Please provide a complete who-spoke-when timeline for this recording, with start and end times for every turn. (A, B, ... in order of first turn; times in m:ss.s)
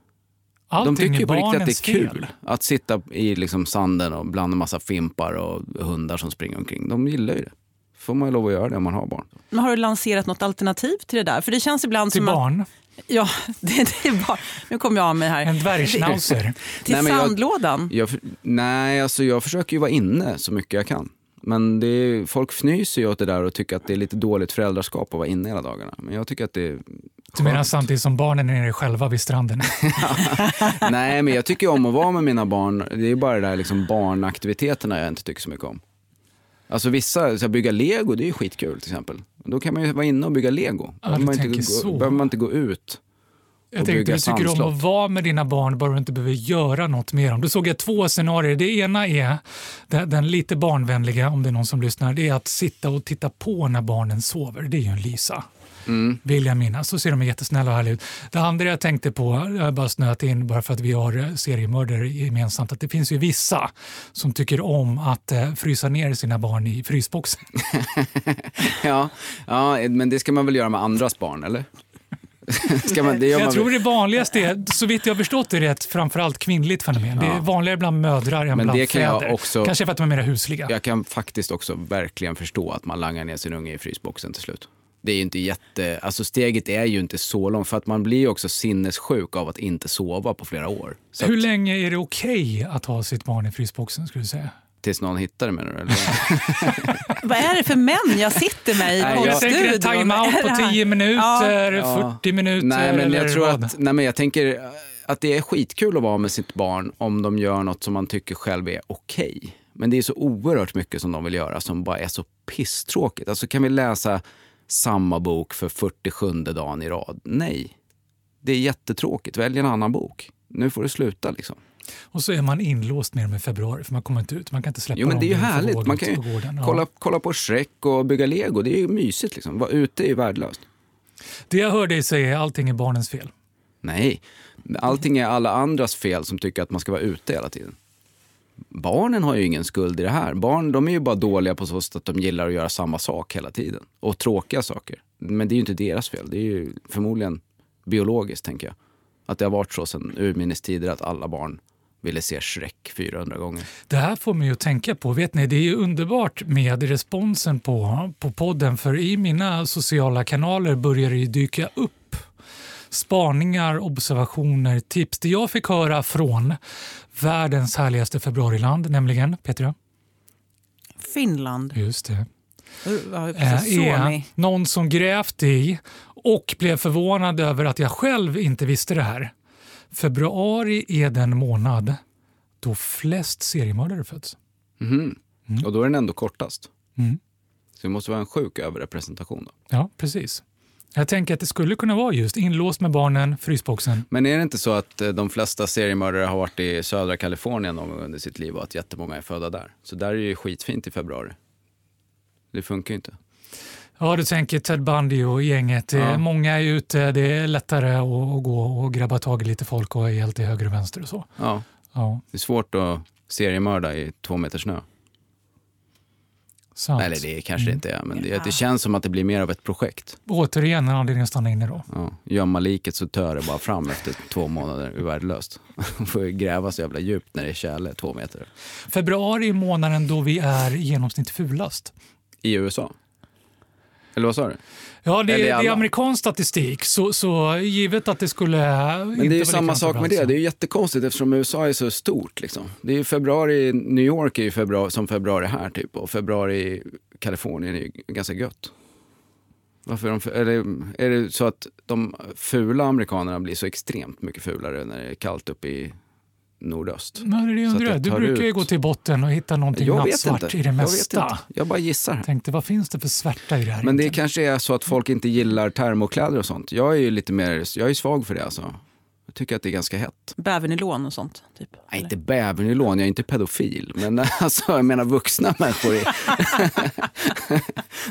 0:00.7-0:02.3 A
0:00.8-0:09.3 B
0:09.5-0:12.4 C
0:12.1-0:12.7 A
0:13.1-0:16.2 C
0:15.4-0:16.6 A
0:16.8-0:17.9 C
0:16.8-0:27.9 B
0:27.4-0:30.2 A
0:30.0-0:35.8 B
0:36.7-0:43.0 B
0:41.0-0:42.3 A
0:43.7-0:55.4 A
0:43.8-0:44.8 B
0:55.9-0:56.2 B
0:56.2-1:07.5 A
1:07.7-1:11.7 B
1:12.5-1:13.8 B
1:12.9-1:20.7 A
1:17.2-1:17.5 B
1:18.5-1:19.8 B
1:20.7-1:31.4 B
1:31.2-1:34.5 A
1:34.8-1:37.0 B
1:37.2-1:41.6 C
1:38.9-1:43.8 A
1:39.0-1:39.6 B
1:41.7-1:57.7 B
1:58.4-2:01.6 B
2:02.1-2:06.8 A
2:05.0-2:10.6 B
2:11.5-2:13.3 A
2:13.8-2:17.8 B
2:18.7-2:28.7 B
2:29.3-2:33.7 B
2:33.9-2:42.3 A
2:42.9-2:46.6 A
2:47.1-2:49.8 A
2:51.0-2:51.8 C
2:51.7-2:52.3 A
2:52.8-2:54.2 C
2:53.4-2:59.3 A
2:59.9-3:02.0 A
3:02.6-3:04.4 A
3:04.8-3:06.7 B
3:07.8-3:09.5 B
3:09.7-3:10.4 A
3:10.9-3:14.1 A
3:14.1-3:21.4 B
3:22.5-3:23.2 B
3:24.0-3:31.3 A
3:26.0-3:26.2 B
3:31.4-3:31.7 B
3:31.9-3:32.2 A
3:32.3-3:34.8 B
3:36.8-3:37.8 A
3:37.0-3:40.2 B
3:38.2-3:38.5 C
3:40.3-3:41.9 A
3:41.9-3:48.5 B
3:48.9-3:51.9 A
3:52.4-3:52.9 B
3:54.2-3:54.6 B
3:55.0-4:00.4 A
3:55.3-3:55.9 B
3:59.2-4:08.7 B
4:09.9-4:16.0 B
4:16.6-4:18.7 B
4:17.2-4:21.4 A
4:19.7-4:22.3 B
4:22.2-4:24.2 A
4:23.8-4:28.8 B
4:29.3-4:30.4 B
4:30.4-4:32.1 C
4:31.9-4:37.7 B